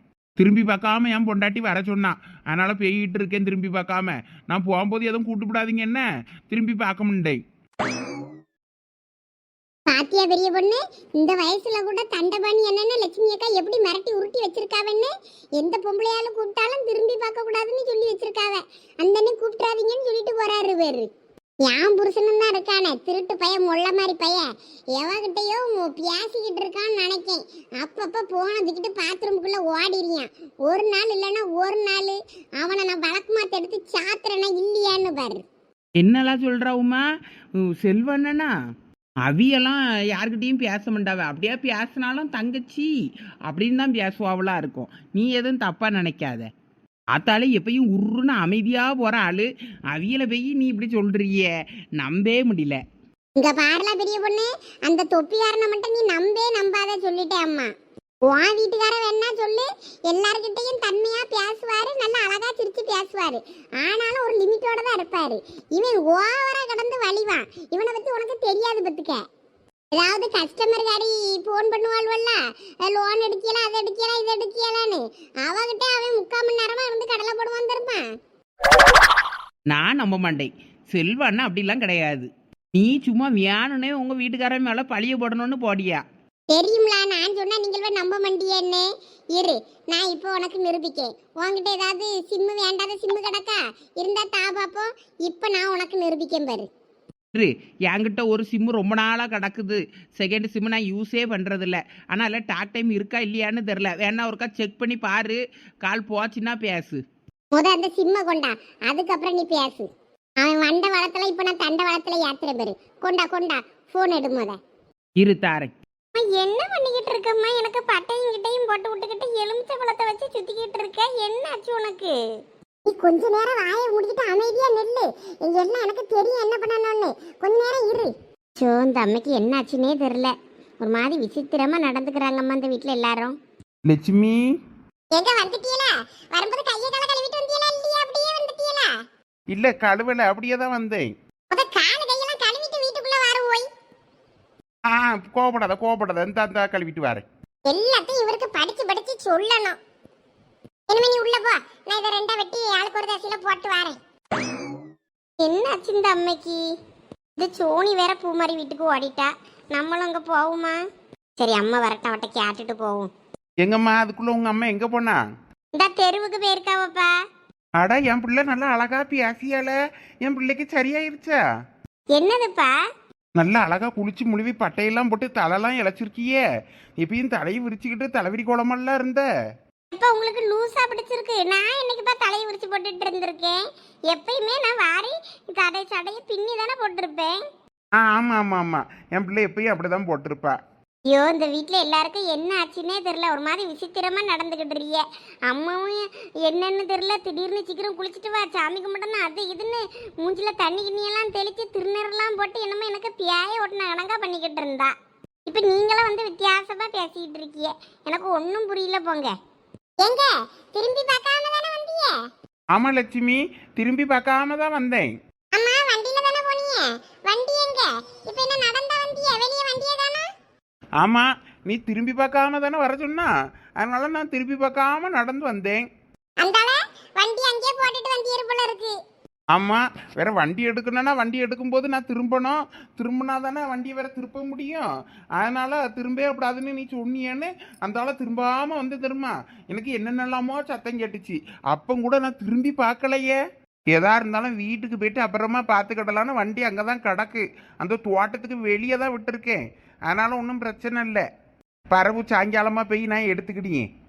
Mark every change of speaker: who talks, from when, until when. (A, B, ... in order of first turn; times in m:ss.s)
0:00.4-0:07.4 A
0:09.9-0:21.1 B
0:21.6-0:35.4 B
0:36.0-0:37.0 C
0:37.6-0:38.5 C
0:39.2-0:42.9 C
0:43.5-0:46.5 C
0:47.1-0:52.8 C
0:53.4-0:57.7 B
0:58.2-1:09.2 B
1:09.9-1:18.1 B
1:19.7-1:26.0 C
1:26.5-1:36.7 B
1:37.3-1:47.0 C
1:47.5-1:49.9 B
1:50.4-1:54.6 B
1:55.2-1:55.7 C
1:56.2-2:02.2 B
2:02.8-2:13.4 B
2:13.8-2:14.4 A
2:15.1-2:18.9 B
2:19.5-2:21.1 A
2:21.5-2:23.7 B
2:24.9-2:27.2 A
2:27.6-2:29.8 B
2:30.9-2:34.0 B
2:35.4-2:36.6 B
2:37.4-2:40.8 B
2:41.4-2:43.1 B
2:43.6-2:45.2 A
2:45.7-2:47.2 B
2:47.8-2:51.4 A
2:52.1-2:52.8 B
2:53.4-2:56.4 A
2:57.0-2:59.2 A
2:59.9-3:07.4 B
3:08.0-3:10.6 A
3:11.1-3:24.9 B
3:25.5-3:29.3 B
3:30.0-3:32.2 B
3:32.7-3:35.1 A
3:35.5-3:40.3 B
3:41.0-3:45.8 A
3:46.4-3:49.0 B
3:49.5-3:54.9 A
3:55.4-4:03.4 A
4:03.9-4:11.2 A
4:11.9-4:13.8 A